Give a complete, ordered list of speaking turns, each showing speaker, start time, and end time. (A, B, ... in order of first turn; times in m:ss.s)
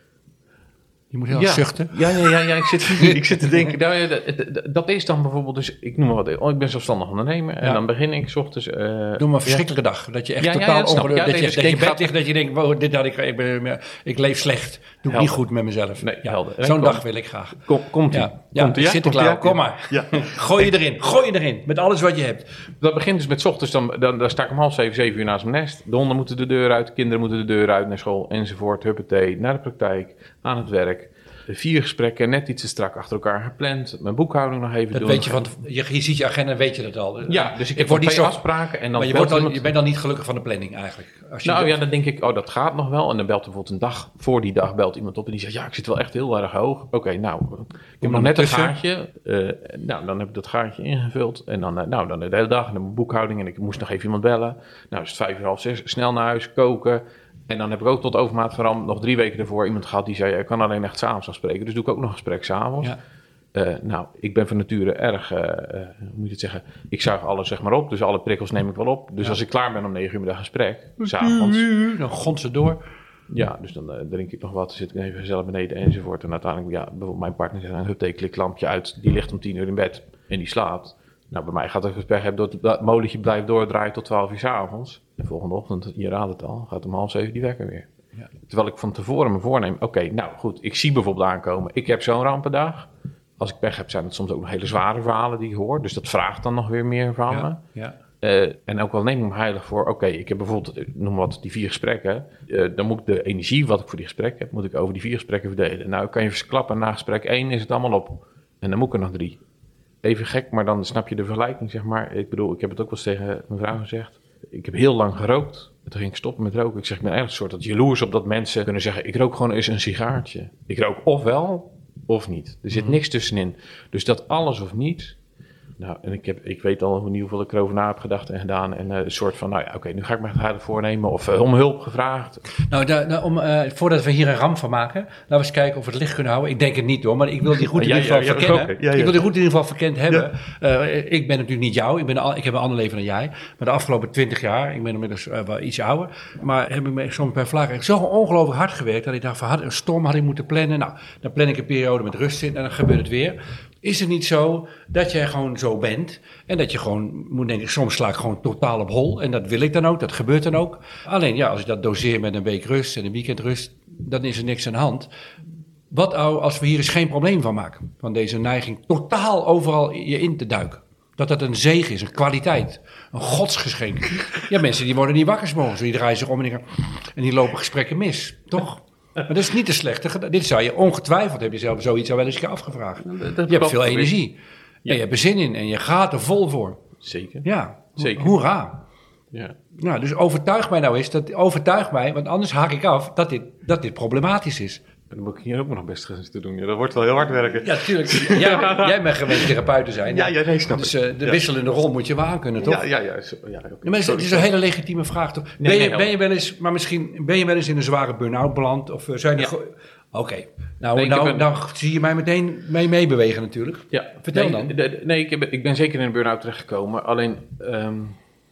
0:01.1-0:03.2 A
0:01.3-0:09.7 B
0:09.2-0:22.7 A
0:10.4-0:12.1 B
0:15.1-0:15.4 B
0:16.0-0:20.7 B
0:22.8-0:35.5 B
0:34.9-0:38.4 A
0:37.3-0:39.7 B
0:38.9-0:41.8 A
0:41.4-1:02.9 B
0:48.0-0:48.7 A
1:03.5-1:11.7 B
1:11.0-1:12.8 A
1:13.3-1:27.9 B
1:28.4-1:37.6 B
1:37.3-1:38.0 A
1:38.2-1:49.4 B
1:50.0-2:05.2 B
2:05.8-2:12.4 B
2:12.6-2:45.1 A
2:17.6-2:19.2 B
2:45.9-3:06.8 A
3:03.0-3:04.2 B
3:07.0-3:08.3 B
3:07.4-3:08.8 A
3:09.8-3:14.8 A
3:15.1-3:21.4 B
3:17.6-3:22.8 A
3:22.6-3:24.5 B
3:23.8-3:34.7 A
3:25.6-3:26.1 B
3:31.0-3:31.5 B
3:33.9-3:38.2 B